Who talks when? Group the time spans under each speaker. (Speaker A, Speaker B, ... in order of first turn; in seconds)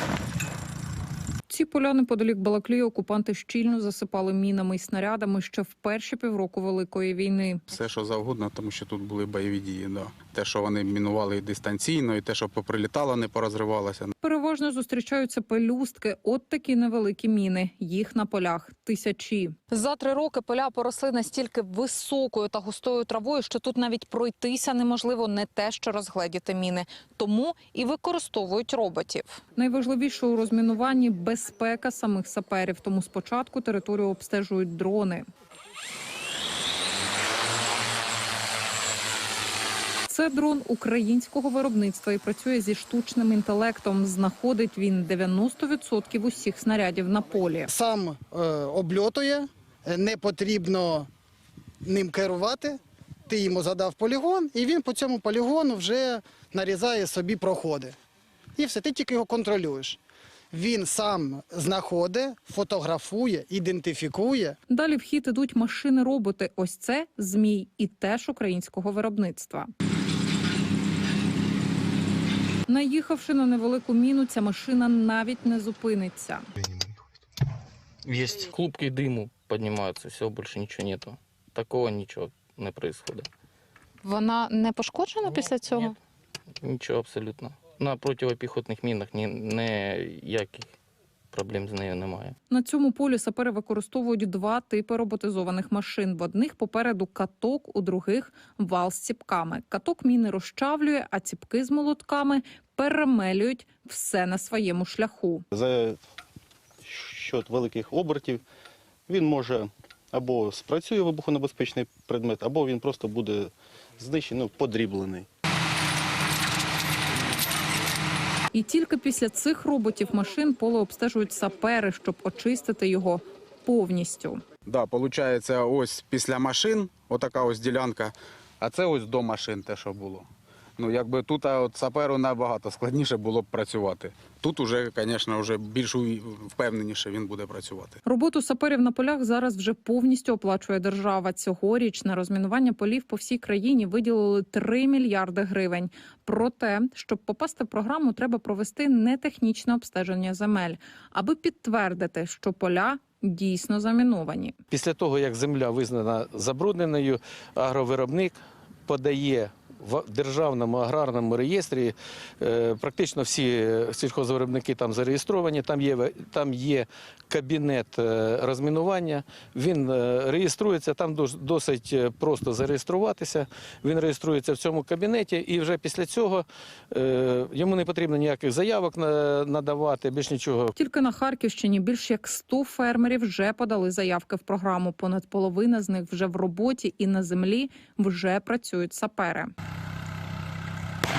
Speaker A: 1.5-7.7, 14.2-35.2, 40.1-47.7, 64.7-69.7, 72.7-76.5, 84.0-85.9, 92.5-105.4, 118.5-124.4, 138.1-154.6, 180.8-189.5
Speaker B: 7.7-14.1, 124.7-130.3, 130.8-138.0
Speaker C: 47.7-51.1, 51.8-58.0, 58.6-60.0, 60.5-64.6
Speaker D: 78.0-83.3, 85.3-85.9, 86.6-90.7, 91.3-92.3
Speaker E: 105.5-106.0, 106.8-108.4, 109.1-115.3
Speaker F: 154.7-180.7